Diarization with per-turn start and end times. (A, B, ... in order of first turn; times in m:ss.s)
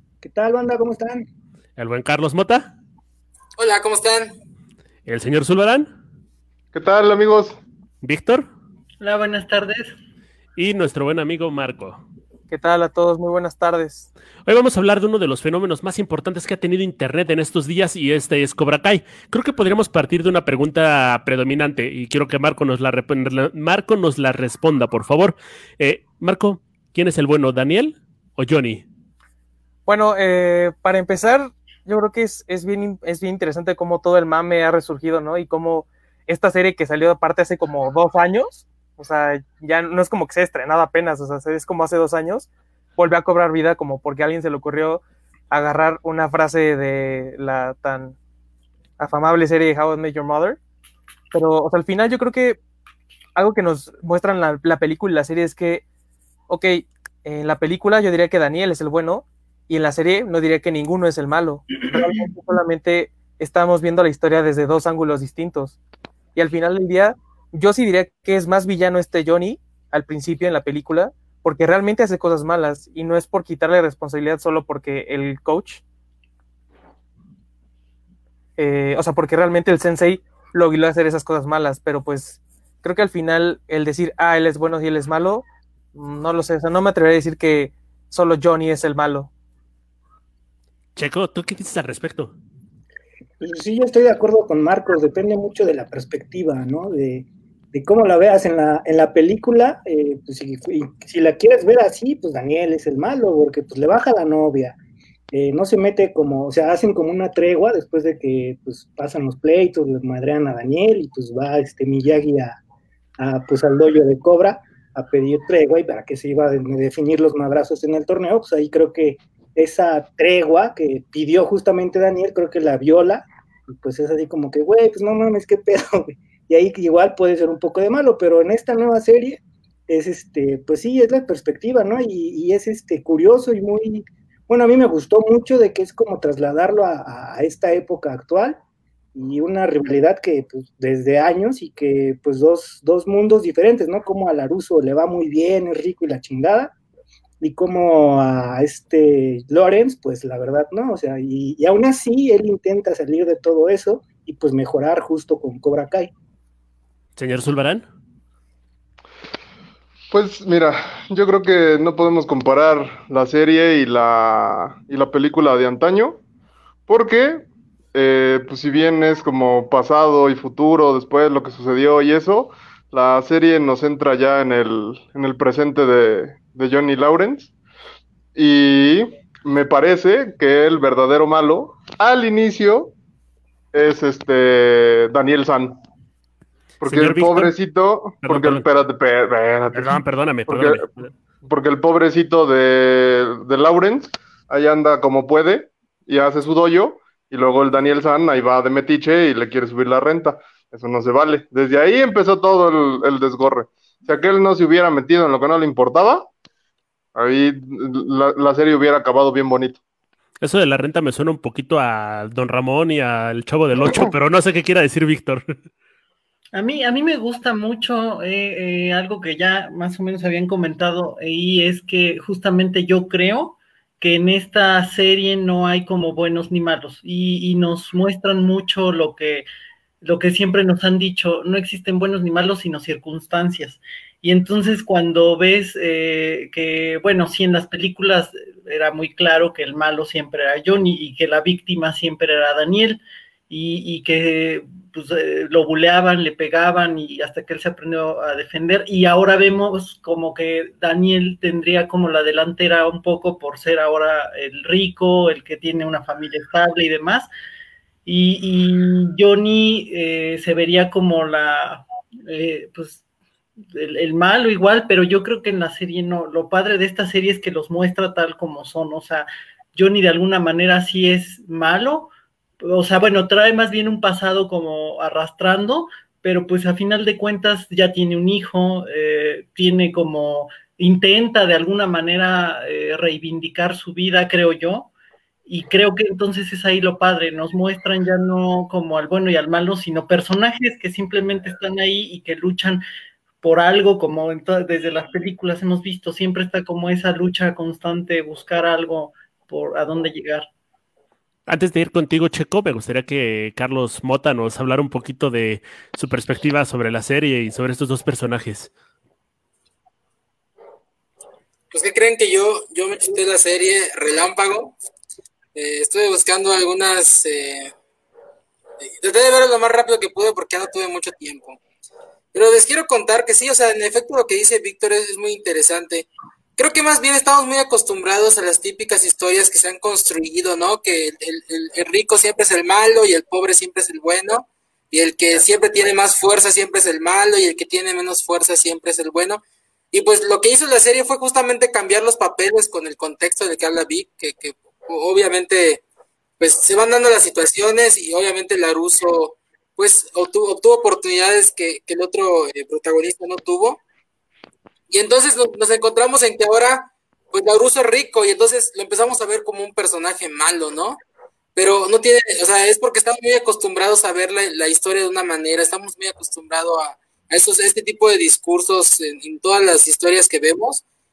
0:00.2-0:01.2 A
0:01.8-0:02.7 B
0:03.6-0:04.4 C
0:05.1-0:05.9 B
0:06.7-0:07.6 D
0:08.0-0:08.5 B
0:09.0-0:10.0 E
0:10.6-0:12.0 B
0:12.5-0:14.1 F
0:14.4-0:28.8 B
0:29.8-0:48.2 F
0:49.0-0:50.6 F
0:51.3-0:52.6 F
0:53.4-0:55.8 F
0:56.5-1:05.8 F
1:06.4-1:15.8 F
1:18.6-1:29.3 F
1:31.0-1:32.3 B
1:33.4-1:44.8 A
1:45.3-1:52.6 A
1:53.2-2:18.6 A
2:19.2-2:26.8 A
2:27.4-2:36.1 A
2:37.2-2:37.8 B
2:40.1-2:46.2 D
2:46.9-2:57.5 D
2:58.3-3:02.9 D
3:03.7-3:05.8 D
3:06.8-3:07.5 B
3:06.8-3:10.9 D
3:08.2-3:08.7 B
3:09.7-3:11.1 B
3:11.5-3:26.3 D
3:27.2-3:29.8 D
3:30.4-3:35.5 B
3:36.5-3:49.5 E
3:50.0-4:17.3 E
4:18.0-4:23.0 E
4:23.7-4:32.1 E
4:32.6-4:44.9 E
4:45.5-4:52.8 E
4:53.4-5:00.4 E
5:01.5-5:08.7 B
5:11.7-5:14.8 C
5:15.6-5:17.7 C
5:18.8-5:21.6 C
5:22.3-5:45.8 C
5:46.4-5:53.8 C
5:54.9-6:01.0 C
6:01.6-6:10.8 C